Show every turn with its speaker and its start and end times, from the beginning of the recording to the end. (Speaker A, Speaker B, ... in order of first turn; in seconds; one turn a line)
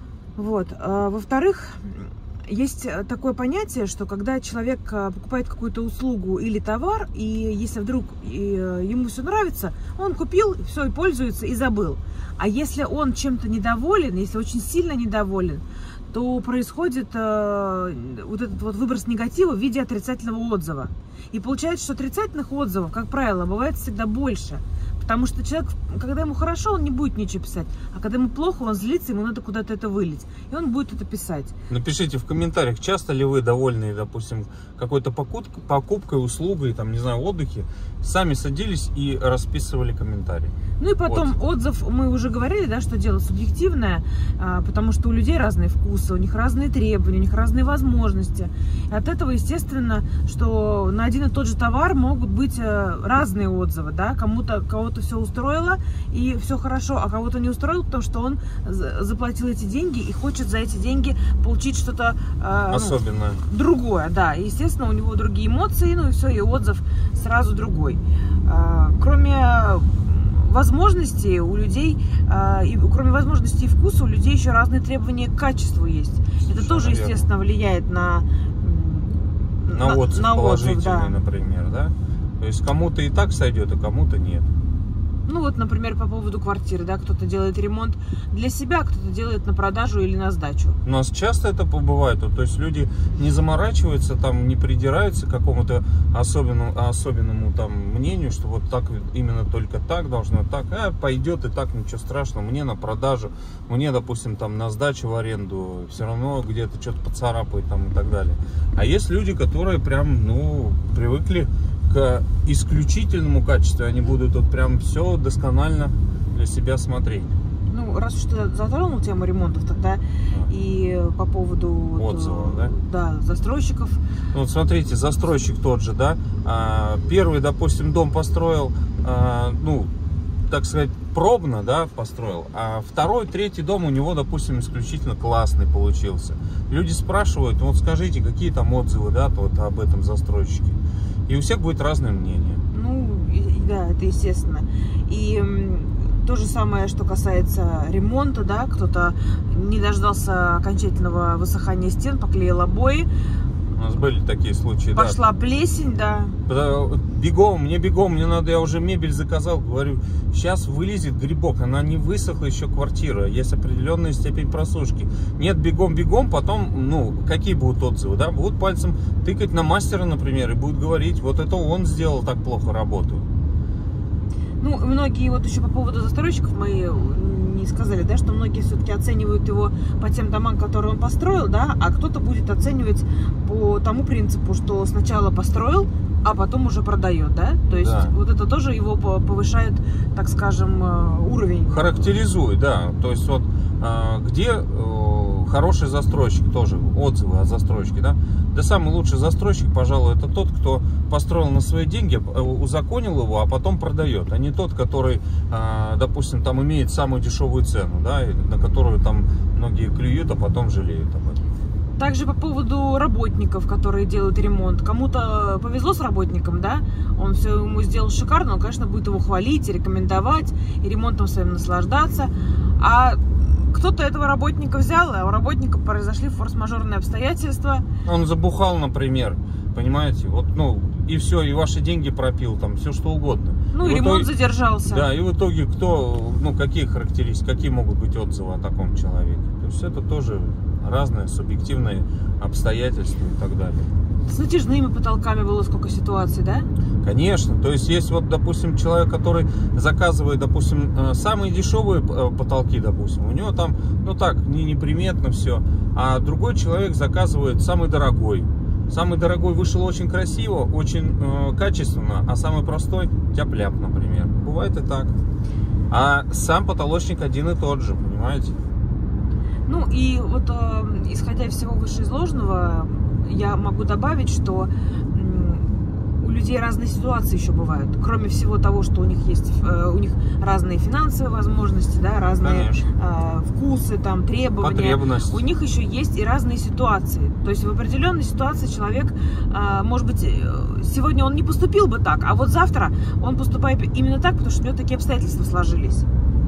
Speaker A: 0.3-31.5
Speaker B: 31.7-41.4
Speaker A: 40.8-81.1
Speaker B: 62.7-63.4
Speaker B: 76.4-77.3
Speaker B: 79.7-84.5
Speaker A: 85.2-90.8
Speaker B: 90.8-117.3
Speaker A: 117.7-124.0
Speaker B: 122.0-122.7
Speaker B: 124.3-129.9
Speaker B: 130.5-142.6
Speaker A: 142.7-153.1
Speaker B: 153.7-155.2
Speaker A: 154.9-156.4
Speaker B: 156.4-173.2
Speaker A: 174.6-192.0
Speaker B: 187.7-188.1
Speaker B: 191.7-211.4
Speaker A: 212.0-227.8
Speaker B: 228.1-234.3
Speaker A: 233.7-235.1
Speaker B: 234.9-243.9
Speaker A: 244.3-246.7
Speaker B: 247.0-265.1
Speaker B: 265.9-268.6
Speaker A: 269.6-296.1
Speaker B: 282.4-282.9
Speaker B: 284.6-285.4